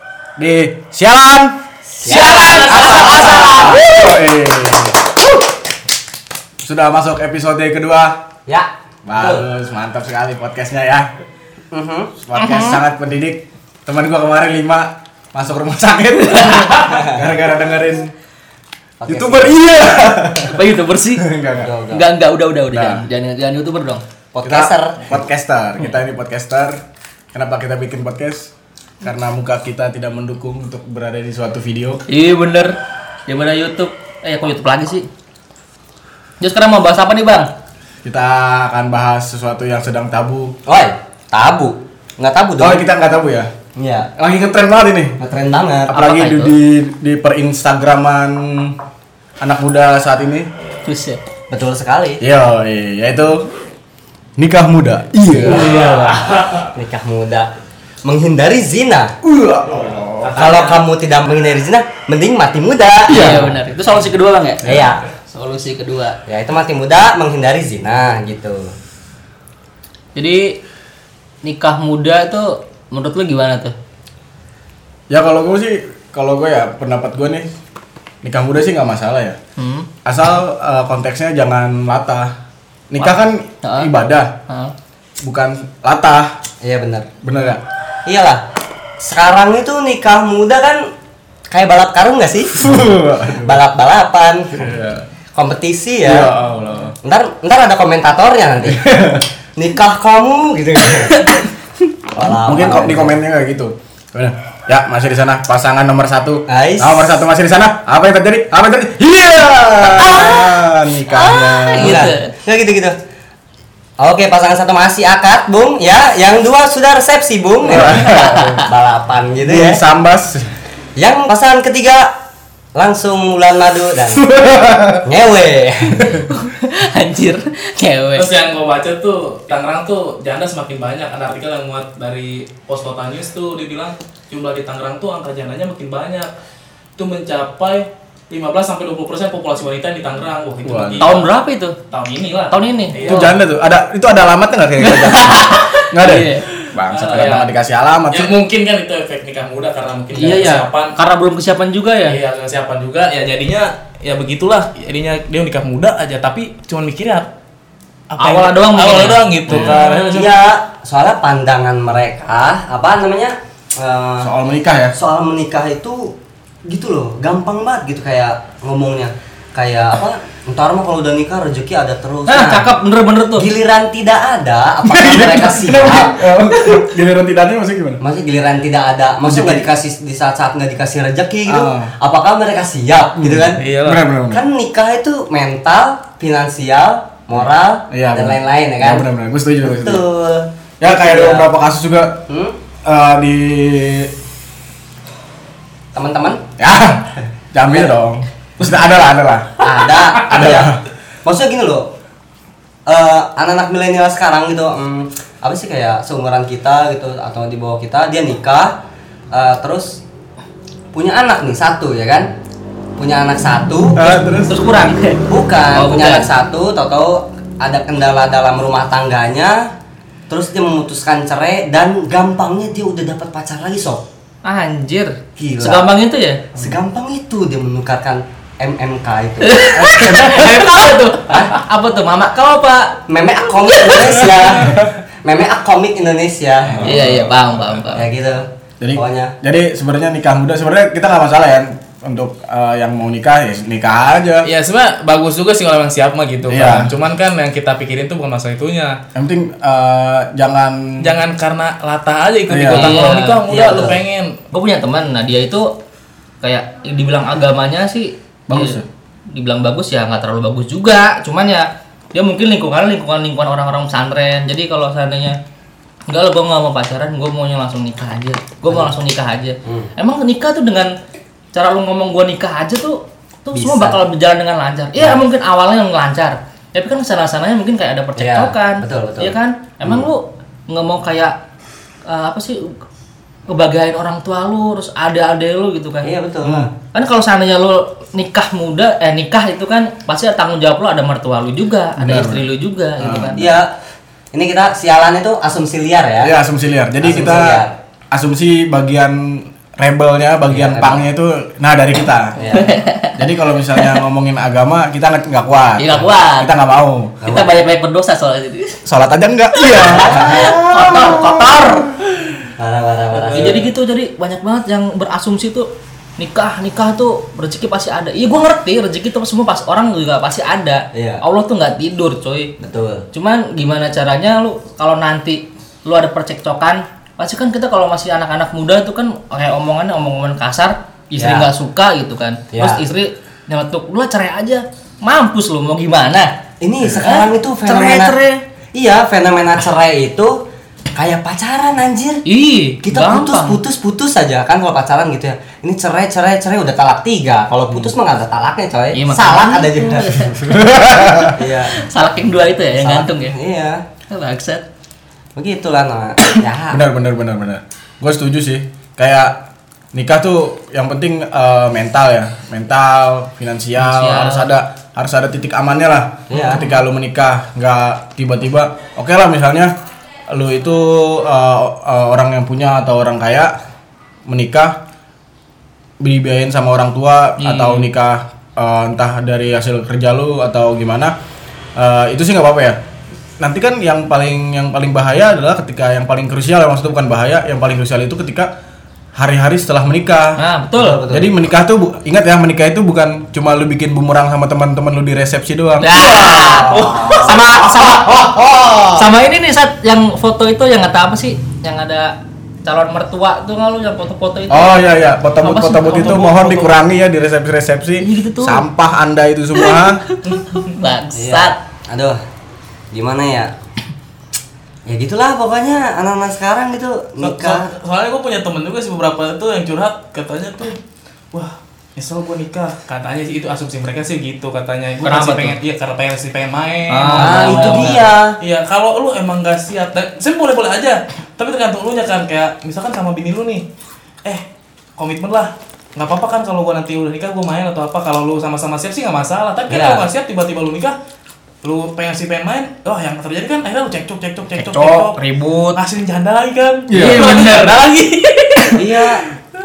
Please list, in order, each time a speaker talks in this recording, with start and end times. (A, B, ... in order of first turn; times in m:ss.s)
0:00.4-0:01.6 A
0:01.9-0:03.8 B
0:02.0-0:03.7 C
0:02.0-0:04.0 D
0:03.4-0:05.0 A
0:06.6-0:08.3 A
0:08.5-0:09.5 B
0:09.1-0:11.1 A
0:11.7-0:12.1 B
0:12.2-0:18.1 A
0:12.4-0:12.8 D
0:16.7-0:17.3 B
0:19.0-0:19.6 B
0:19.1-0:20.6 A
0:20.5-0:21.3 D
0:21.1-0:21.7 A
0:21.5-0:22.1 B
0:21.9-0:24.0 D
0:22.7-0:23.1 A
0:24.3-0:25.1 B
0:24.4-0:26.8 A
0:27.3-0:32.0 A
0:32.1-0:35.1 D
0:36.4-0:37.5 D
0:38.0-0:40.6 A
0:40.6-0:42.8 B
0:42.6-0:43.5 A
0:43.8-0:44.1 B
0:44.2-0:45.2 A
0:45.2-0:45.9 B
0:45.9-0:48.8 A
0:45.9-0:46.5 D
0:49.4-0:50.5 A
0:50.8-0:51.2 D
0:51.5-0:52.2 B
0:52.2-0:53.5 A
0:54.4-0:55.9 A
0:55.3-0:56.1 B
0:55.8-0:56.4 D
0:55.8-0:56.6 C
0:56.7-0:57.5 B
0:58.0-0:59.2 B
0:59.2-1:00.4 A
0:59.7-1:00.8 C
1:00.3-1:03.6 B
1:03.1-1:06.2 D
1:03.1-1:03.4 A
1:04.6-1:05.0 B
1:04.6-1:04.9 A
1:06.2-1:08.7 B
1:10.1-1:10.6 D
1:11.4-1:13.7 D
1:15.1-1:17.5 A
1:18.2-1:19.4 A
1:19.6-1:19.9 D
1:20.0-1:22.3 A
1:22.9-1:24.4 A
1:23.6-1:23.9 D
1:24.5-1:24.7 D
1:25.2-1:26.4 A
1:26.6-1:27.1 B
1:27.2-1:27.6 A
1:28.0-1:28.5 B
1:29.0-1:30.9 B
1:31.5-1:34.7 B
1:32.6-1:33.6 A
1:34.5-1:35.0 A
1:35.3-1:36.3 B
1:36.0-1:36.9 A
1:37.0-1:38.9 B
1:38.6-1:39.2 A
1:39.6-1:41.4 B
1:42.1-1:43.2 B
1:42.2-1:52.1 A
1:46.5-1:47.2 B
1:49.9-1:50.6 B
1:51.1-1:52.3 D
1:51.8-1:53.0 B
1:54.0-1:59.8 B
1:57.6-1:58.5 A
1:57.8-1:58.6 D
1:59.4-2:00.5 A
2:01.0-2:02.1 B
2:02.7-2:04.4 B
2:04.2-2:05.0 A
2:05.0-2:06.2 B
2:06.0-2:08.3 D
2:08.2-2:16.3 C
2:17.0-2:21.3 C
2:20.6-2:21.1 A
2:21.0-2:21.8 D
2:21.9-2:23.4 C
2:22.5-2:23.3 D
2:23.0-2:28.4 A
2:24.8-2:26.5 D
2:26.9-2:27.5 C
2:28.1-2:31.0 C
2:30.1-2:32.2 D
2:32.0-2:37.3 C
2:38.1-2:40.4 C
2:38.2-2:39.8 D
2:39.5-2:39.8 A
2:39.8-2:44.3 B
2:44.2-2:45.0 A
2:45.0-2:52.7 B
2:52.3-2:53.5 D
2:53.4-2:56.3 B
2:54.8-2:58.0 A
2:58.0-3:03.6 B
2:59.2-2:59.7 A
3:01.4-3:01.9 A
3:03.2-3:04.4 A
3:03.5-3:04.0 C
3:04.3-3:09.0 B
3:07.9-3:10.0 A
3:09.6-3:11.5 B
3:10.8-3:12.2 A
3:12.3-3:12.6 B
3:12.8-3:14.1 A
3:15.9-3:16.4 B
3:16.6-3:19.6 A
3:17.7-3:17.9 B
3:19.6-3:21.9 B
3:20.2-3:20.8 A
3:22.9-3:28.8 B
3:29.3-3:30.0 B
3:30.9-3:32.3 B
3:33.0-3:34.0 B
3:33.9-3:34.6 A
3:34.0-3:36.3 D
3:35.3-3:39.7 B
3:40.3-3:44.0 B
3:44.4-3:46.5 D
3:45.4-3:45.9 B
3:46.5-3:49.7 B
3:49.4-3:53.0 D
3:49.8-3:50.6 A
3:51.3-3:51.5 B
3:53.1-3:57.0 B
3:53.7-3:54.1 D
3:56.6-3:57.3 A
3:56.8-3:58.1 D
3:57.9-3:59.3 B
3:58.8-4:04.5 A
4:04.4-4:09.0 C
4:06.5-4:06.9 A
4:09.1-4:11.1 A
4:11.0-4:14.4 C
4:12.5-4:13.0 A
4:12.7-4:13.4 D
4:13.4-4:14.0 B
4:14.5-4:15.7 D
4:16.4-4:25.4 D
4:18.5-4:18.9 A
4:26.1-4:30.9 D
4:29.6-4:29.9 B
4:31.5-4:41.3 D
4:33.5-4:34.0 B
4:35.0-4:35.2 B
4:38.2-4:40.1 B
4:42.1-4:42.8 D
4:43.5-4:46.1 D
4:46.0-4:46.7 B
4:46.4-4:46.7 A
4:46.9-4:53.5 D
4:52.0-4:52.5 A
4:53.0-4:53.5 A
4:53.3-4:53.8 B
4:54.3-4:56.3 B
4:56.2-5:02.5 A
4:57.0-4:57.8 B
5:00.5-5:01.0 B
5:02.4-5:02.8 B
5:02.5-5:03.2 D
5:03.1-5:07.2 A
5:05.8-5:06.5 D
5:07.2-5:07.5 B
5:07.2-5:08.8 D
5:08.8-5:11.6 A
5:09.6-5:11.9 D
5:09.7-5:10.6 B
5:12.6-5:13.7 B
5:13.2-5:22.5 D
5:20.9-5:21.2 B
5:22.6-5:23.0 B
5:23.1-5:36.3 D
5:31.2-5:31.5 B
5:32.5-5:32.8 B
5:36.6-5:38.1 B
5:37.0-5:38.4 D
5:38.7-5:40.4 B
5:40.9-5:42.2 B
5:42.2-5:43.6 D
5:42.8-5:50.3 B
5:48.9-5:50.4 D
5:50.3-5:51.4 A
5:51.3-5:51.8 B
5:51.6-5:53.4 D
5:52.8-5:53.8 B
5:54.1-5:54.6 D
5:55.4-5:56.8 B
5:56.7-5:59.4 A
5:59.9-6:09.7 A
6:03.8-6:04.5 D
6:06.3-6:06.7 B
6:10.3-6:13.5 A
6:14.3-6:14.8 A
6:16.0-6:21.1 A
6:17.4-6:17.9 D
6:21.8-6:22.8 A
6:23.4-6:28.5 A
6:29.1-6:30.4 A
6:30.4-6:31.0 D
6:30.7-6:31.3 B
6:31.1-6:35.9 A
6:35.8-6:38.1 D
6:35.9-6:39.0 B
6:38.9-6:46.3 D
6:44.5-6:50.0 A
6:45.8-6:46.8 C
6:48.0-6:48.6 D
6:49.6-6:51.6 D
6:50.2-6:50.7 C
6:51.2-6:52.2 B
6:52.9-6:53.5 B
6:54.8-6:57.7 B
6:57.2-7:00.8 C
7:01.3-7:13.6 C
7:05.0-7:05.6 D
7:06.9-7:08.0 D
7:07.2-7:08.4 B
7:15.0-7:21.0 C
7:19.7-7:20.0 B
7:21.6-7:25.2 C
7:24.6-7:25.8 D
7:25.7-7:29.2 C
7:26.9-7:27.4 A
7:26.9-7:27.8 D
7:28.7-7:29.3 B